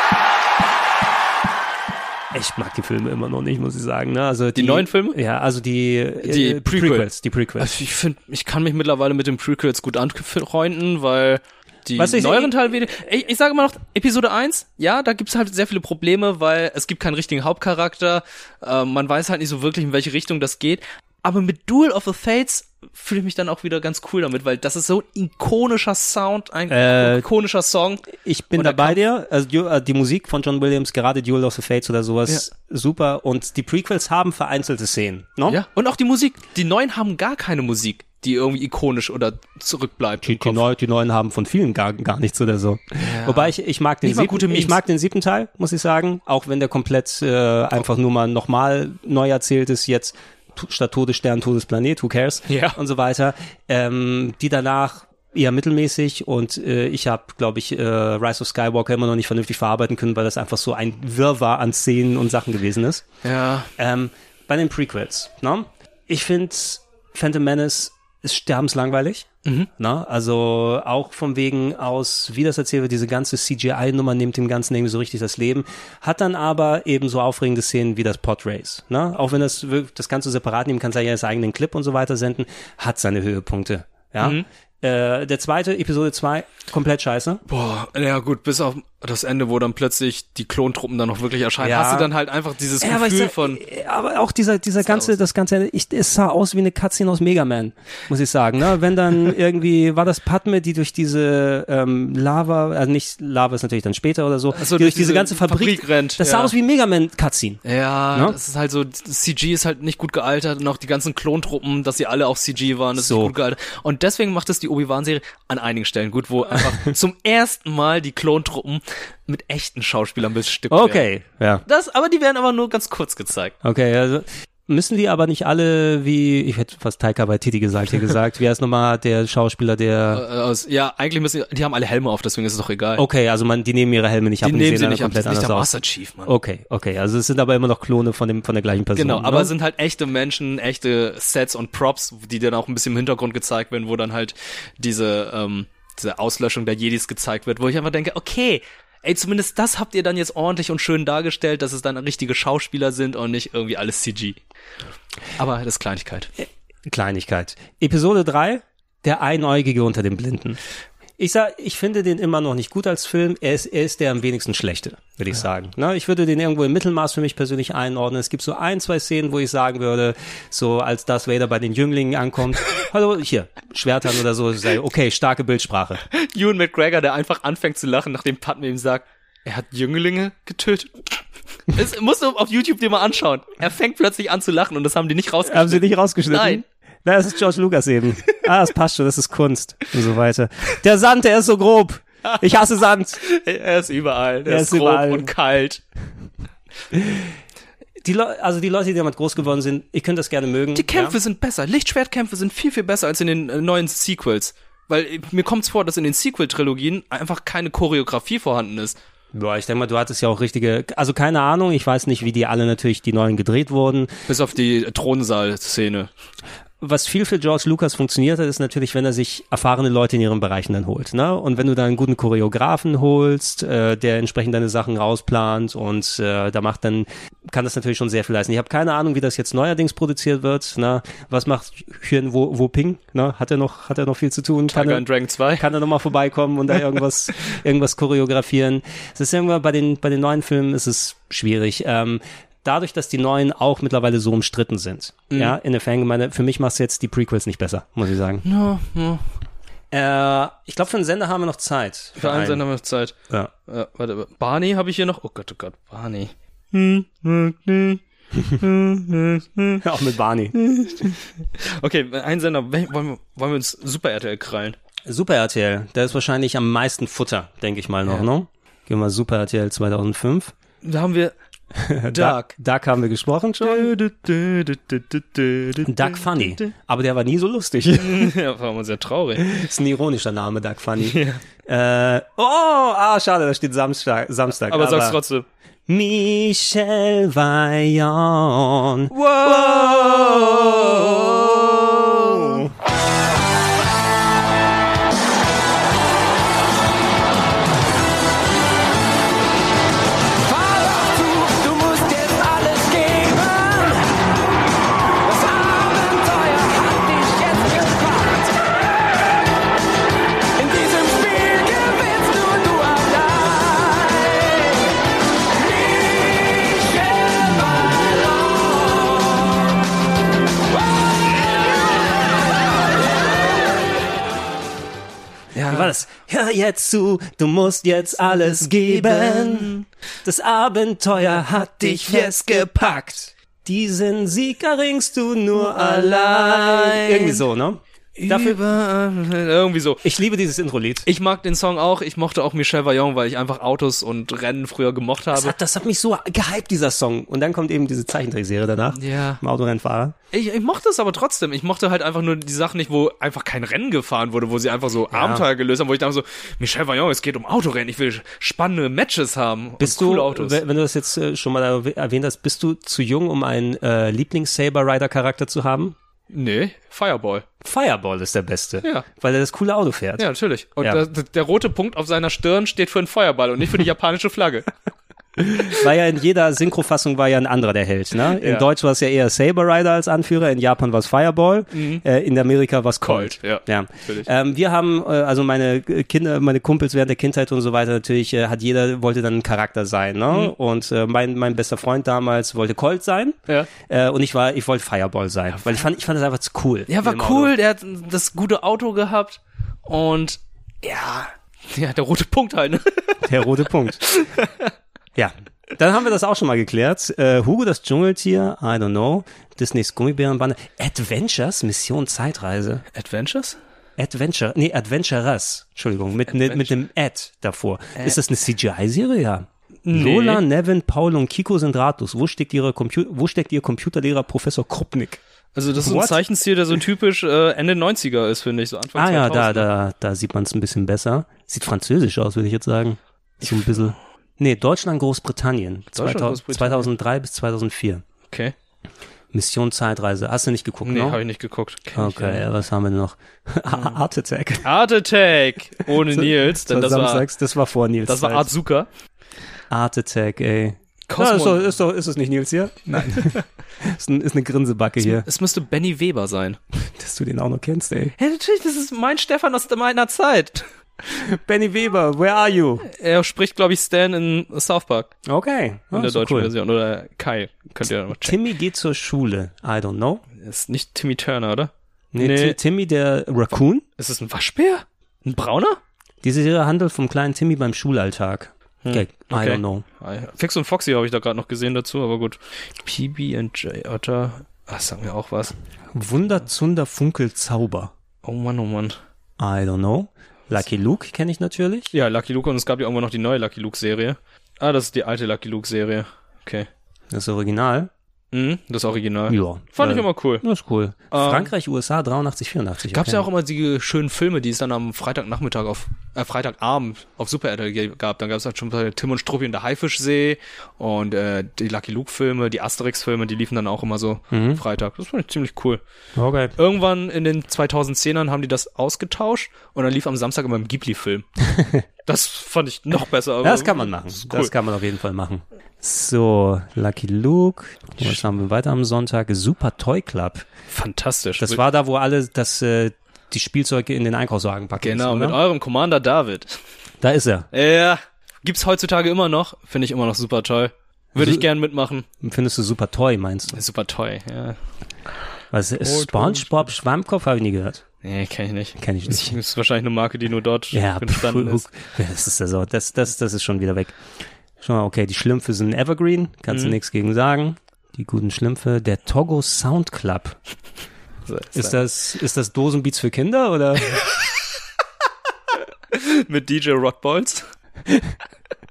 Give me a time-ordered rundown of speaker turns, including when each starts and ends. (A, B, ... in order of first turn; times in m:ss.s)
0:02.3-0:07.7 A
0:04.6-0:05.2 B
0:06.2-0:07.1 B
0:07.6-0:28.0 B
0:12.0-0:12.5 A
0:26.7-0:27.2 A
0:28.2-0:35.6 A
0:28.6-0:29.0 B
0:35.5-0:40.6 B
0:40.2-1:03.1 A
0:43.0-0:44.8 B
0:52.5-0:52.8 B
1:03.2-1:03.7 B
1:03.8-1:27.4 A
1:24.2-1:24.4 B
1:27.5-1:33.6 B
1:31.6-1:32.1 A
1:32.8-1:47.6 A
1:34.8-1:35.1 B
1:44.5-1:46.5 B
1:47.6-2:01.0 B
1:53.0-1:53.3 A
2:00.7-2:01.6 A
2:01.7-2:03.6 B
2:03.6-2:10.2 A
2:10.1-2:13.0 B
2:13.0-2:15.7 A
2:14.4-2:16.3 B
2:16.3-2:19.5 A
2:19.0-2:34.4 B
2:35.4-2:36.3 B
2:36.4-2:40.6 A
2:41.2-2:56.0 A
2:56.1-3:01.1 B
3:01.7-3:06.6 B
3:05.5-3:13.2 A
3:13.2-3:15.8 B
3:14.5-3:15.3 A
3:16.9-3:17.2 A
3:18.0-3:21.2 A
3:20.8-3:29.0 B
3:29.3-3:34.1 A
3:34.3-3:36.1 B
3:36.8-3:55.0 A
3:54.7-3:55.7 B
3:55.6-4:08.4 A
4:05.3-4:05.6 B
4:08.4-4:09.2 B
4:09.9-4:12.6 A
4:12.2-4:13.2 B
4:13.7-4:18.0 B
4:18.6-4:19.8 B
4:19.8-4:20.6 A
4:20.5-4:24.8 B
4:25.1-4:30.5 A
4:30.8-4:31.4 B
4:31.8-4:33.9 A
4:32.1-4:32.5 B
4:33.6-4:36.6 B
4:35.9-4:38.3 A
4:38.0-4:39.4 B
4:39.4-4:45.2 A
4:41.0-4:41.4 B
4:44.7-4:45.5 B
4:45.9-4:51.2 A
4:49.1-4:52.6 B
4:52.2-4:52.6 A
5:00.5-5:04.0 C
5:05.2-5:08.5 C
5:10.6-5:14.8 C
5:15.6-5:17.5 C
5:18.5-5:19.0 C
5:25.5-5:25.9 B
5:25.7-5:38.6 A
5:28.2-5:29.9 B
5:31.8-5:32.9 B
5:35.7-5:37.4 B
5:38.2-5:40.0 B
5:40.0-5:41.1 A
5:41.0-5:45.6 B
5:45.3-5:50.2 A
5:48.9-5:49.4 B
5:50.3-6:00.6 B
5:55.1-5:55.4 A
5:59.8-6:06.0 A
6:06.3-6:07.4 B
6:07.6-6:10.2 A
6:10.2-6:14.7 B
6:15.4-6:37.5 A
6:18.3-6:18.7 B
6:21.7-6:22.0 B
6:23.0-6:24.3 B
6:36.9-6:42.8 B
6:43.2-6:44.0 A
6:44.2-6:44.7 B
6:45.2-6:52.8 A
6:52.9-6:53.6 B
6:54.0-7:05.2 A
6:56.3-6:56.8 B
6:59.8-7:00.4 B
7:05.6-7:09.7 B
7:05.8-7:06.2 A
7:09.0-7:18.0 A
7:13.4-7:13.9 B
7:15.9-7:16.9 B
7:18.3-7:18.6 B
7:19.3-7:21.2 A
7:20.8-7:22.4 B
7:22.0-7:24.7 A
7:23.7-7:24.0 B
7:24.6-7:27.3 B
7:26.1-7:28.5 A
7:28.1-7:28.9 B
7:29.7-7:35.2 A
7:31.1-7:31.7 B
7:32.9-7:33.4 B
7:35.0-7:36.6 B
7:37.0-7:38.1 A
7:38.2-7:40.7 B
7:41.1-7:42.9 A
7:42.8-7:45.1 B
7:45.3-7:46.5 A
7:45.9-7:48.4 B
7:48.2-7:50.2 A
7:50.4-7:52.6 B
7:52.1-7:53.8 A
7:54.0-7:55.8 B
7:56.2-7:59.8 A
7:58.8-8:05.6 B
8:05.9-8:07.9 A
8:08.2-8:09.0 B
8:09.4-8:11.9 A
8:11.9-8:16.7 B
8:17.1-8:17.9 A
8:18.3-8:20.4 B
8:19.3-8:23.3 A
8:21.1-8:21.5 B
8:22.9-8:35.8 B
8:34.3-8:34.6 A
8:36.2-8:36.6 A
8:36.6-8:41.3 B
8:41.5-8:41.8 A
8:42.1-8:44.5 B
8:43.4-8:50.5 A
8:50.7-8:51.6 B
8:51.4-8:55.4 A
8:54.8-8:56.6 B
8:57.0-8:57.5 A
8:57.5-9:02.1 B
9:01.2-9:01.4 A
9:02.2-9:03.6 A
9:03.5-9:04.6 B
9:05.5-9:07.8 A
9:05.8-9:06.7 B
9:08.0-9:11.6 B
9:08.8-9:09.4 A
9:10.7-9:14.0 A
9:14.6-9:20.4 A
9:16.5-9:16.8 B
9:21.3-9:21.8 B
9:21.6-9:24.0 A
9:25.9-9:27.4 B